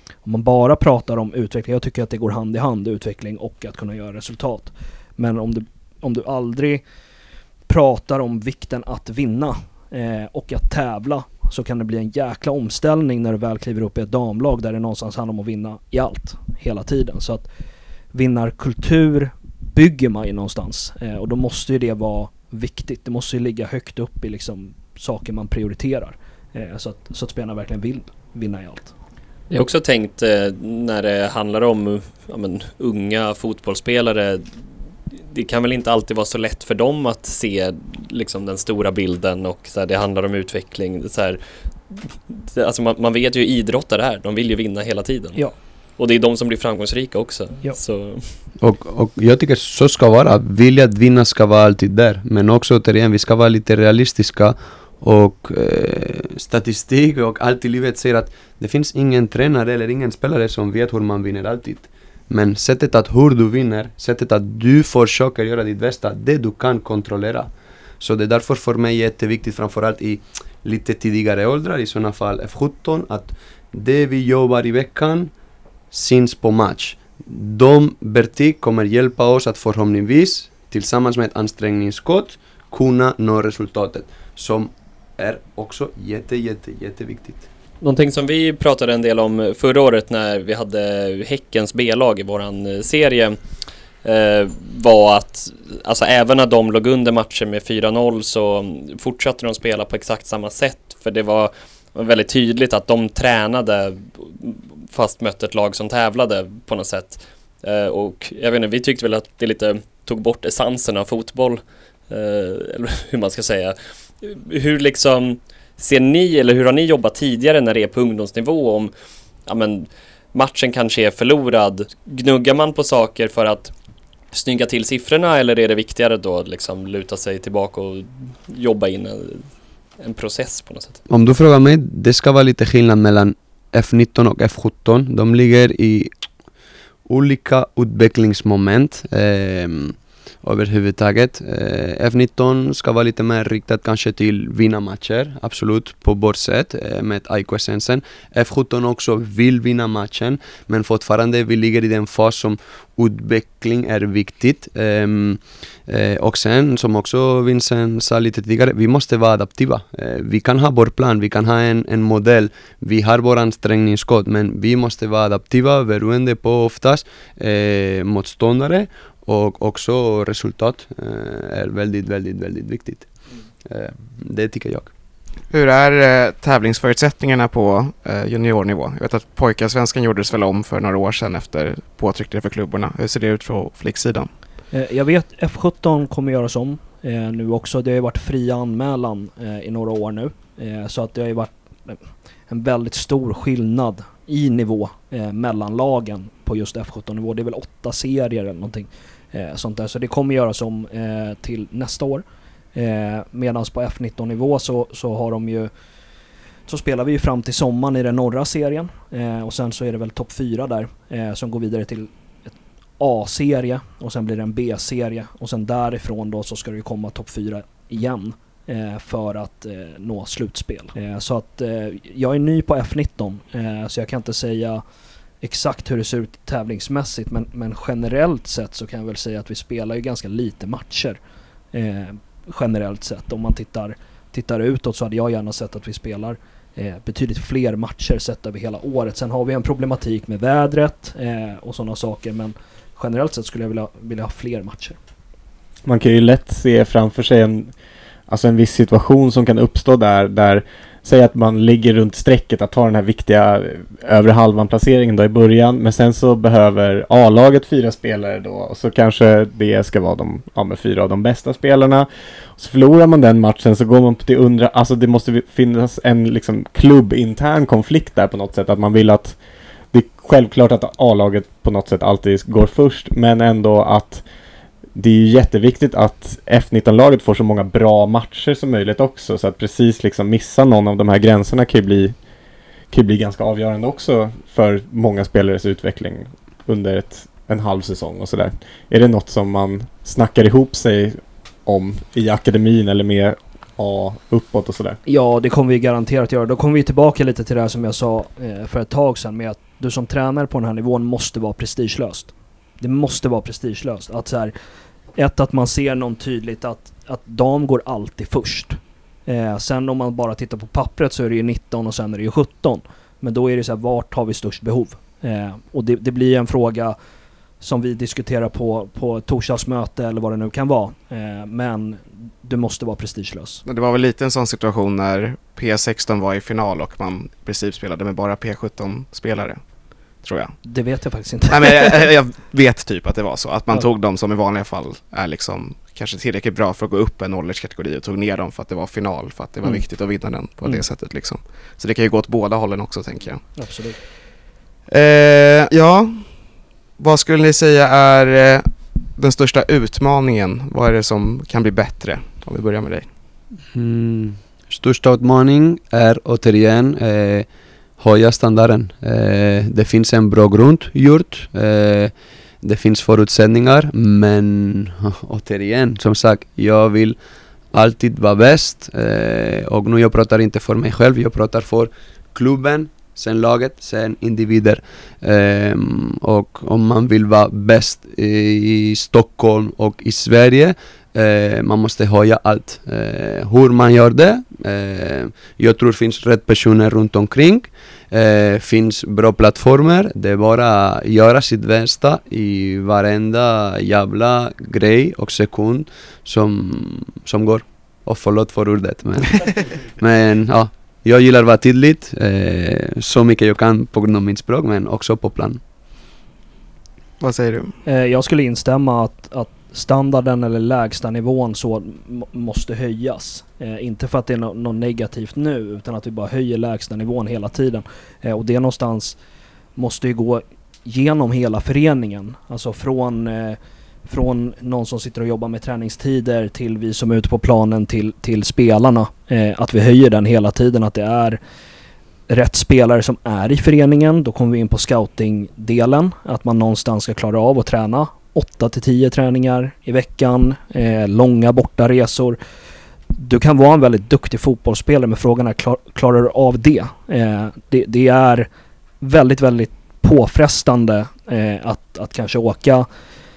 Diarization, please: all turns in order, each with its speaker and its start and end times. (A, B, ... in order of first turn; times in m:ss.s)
0:00.2-0:06.8 A
0:07.7-0:17.5 A
0:18.1-0:28.9 A
0:29.5-0:34.5 B
0:35.3-0:41.4 B
0:41.9-0:45.4 B
0:46.0-0:48.3 B
0:48.6-1:15.3 C
1:15.9-1:27.4 C
1:27.8-1:33.4 B
1:34.0-1:58.9 B
1:59.4-2:03.7 B
2:04.3-2:11.0 B
2:11.1-2:16.1 C
2:17.1-2:53.1 C
2:53.6-2:54.9 C
2:55.5-3:04.3 D
3:04.7-3:25.7 A
3:26.7-3:44.8 A
3:45.4-3:51.2 A
3:51.7-4:05.0 A
4:05.8-4:07.7 E
4:08.3-4:29.4 E
4:29.9-4:34.2 E
4:34.9-4:42.1 E
4:42.9-4:55.0 E
4:55.0-5:04.5 A
5:05.1-5:17.0 A
5:17.6-5:23.6 A
5:23.6-5:29.6 D
5:30.2-5:30.5 D
5:30.6-5:32.0 A
5:31.5-5:43.4 D
5:43.6-5:44.0 A
5:44.9-5:46.3 D
5:47.0-5:53.1 D
5:53.7-5:57.5 C
5:58.0-6:07.2 C
6:07.7-6:45.6 C
6:47.2-6:47.7 D
6:47.8-6:59.2 A
6:59.8-7:11.4 A
7:12.3-7:22.4 A
7:23.1-7:28.5 A
7:29.0-7:32.9 A